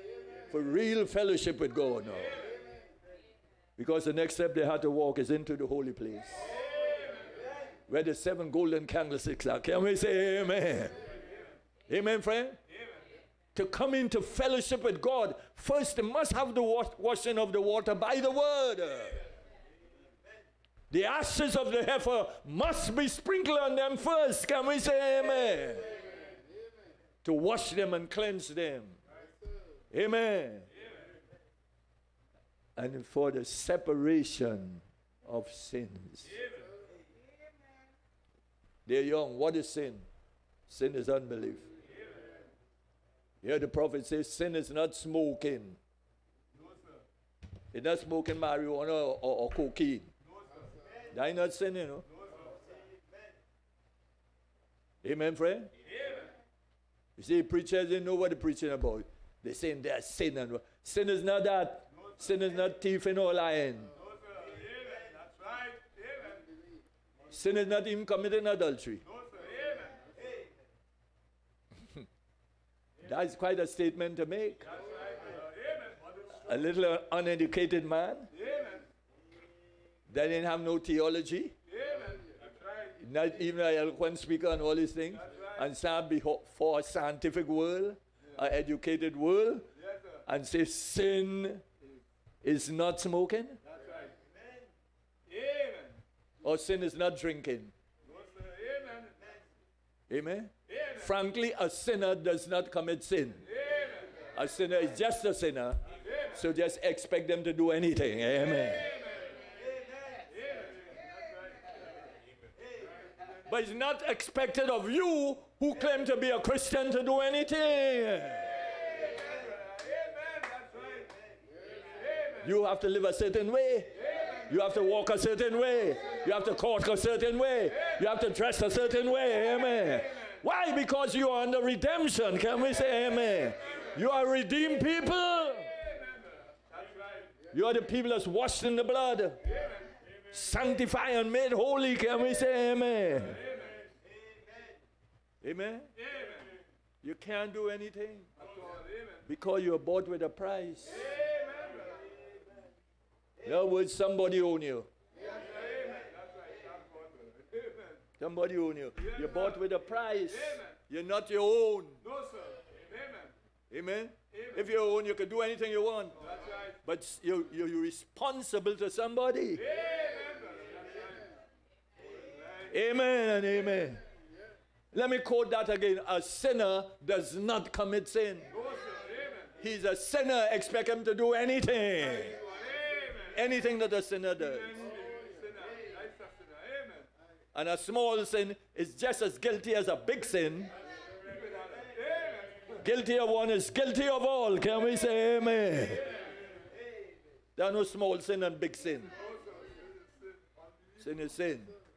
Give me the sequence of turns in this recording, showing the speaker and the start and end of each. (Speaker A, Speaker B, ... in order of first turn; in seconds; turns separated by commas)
Speaker A: 0.5-2.4, Speaker A: 3.8-6.5, Speaker A: 7.9-10.9, Speaker A: 11.9-12.6, Speaker A: 13.5-19.2, Speaker A: 20.9-25.9, Speaker A: 27.2-29.0, Speaker A: 29.9-30.7, Speaker A: 32.8-36.4, Speaker A: 38.9-40.0, Speaker A: 40.7-41.7, Speaker A: 43.4-45.8, Speaker B: 46.5-47.0, Speaker A: 47.7-50.1, Speaker B: 50.3-50.8, Speaker A: 51.1-52.0, Speaker A: 55.0-55.7, Speaker B: 55.9-56.3, Speaker A: 57.2-63.9, Speaker B: 64.0-66.6, Speaker A: 67.3-69.0, Speaker B: 69.1-70.1, Speaker A: 73.0-74.7, Speaker B: 74.7-76.2, Speaker A: 76.3-78.3, Speaker B: 78.3-78.8, Speaker A: 80.1-81.5, Speaker B: 81.7-83.0, Speaker A: 83.0-89.7, Speaker A: 90.2-91.6, Speaker A: 92.4-93.6, Speaker B: 93.7-94.2, Speaker B: 95.3-96.0, Speaker A: 96.4-97.7, Speaker B: 98.1-99.4, Speaker A: 100.1-103.5, Speaker B: 103.6-104.1, Speaker A: 104.3-109.0, Speaker B: 110.1-111.1, Speaker A: 113.5-118.6, Speaker B: 119.4-121.2, Speaker B: 122.0-122.4, Speaker A: 122.4-135.7, Speaker B: 136.7-137.3, Speaker A: 137.5-139.4, Speaker A: 140.3-143.4, Speaker B: 143.5-143.8, Speaker A: 145.4-145.9, Speaker B: 146.0-146.4, Speaker A: 147.0-148.3, Speaker B: 148.4-149.2, Speaker A: 149.2-151.1, Speaker B: 151.1-151.9, Speaker A: 153.4-154.9, Speaker B: 155.2-158.0, Speaker A: 158.2-162.0, Speaker B: 159.1-159.5, Speaker B: 162.0-163.3, Speaker A: 163.7-166.2, Speaker B: 166.2-166.7, Speaker A: 166.8-169.6, Speaker B: 169.6-171.3, Speaker A: 172.7-174.0, Speaker A: 174.9-178.5, Speaker B: 178.6-179.5, Speaker A: 179.6-182.4, Speaker B: 182.4-183.4, Speaker A: 183.3-184.8, Speaker B: 184.4-187.1, Speaker A: 187.5-190.7, Speaker B: 191.1-192.8, Speaker A: 192.8-196.1, Speaker A: 197.6-199.1, Speaker B: 199.2-201.0, Speaker A: 201.0-201.7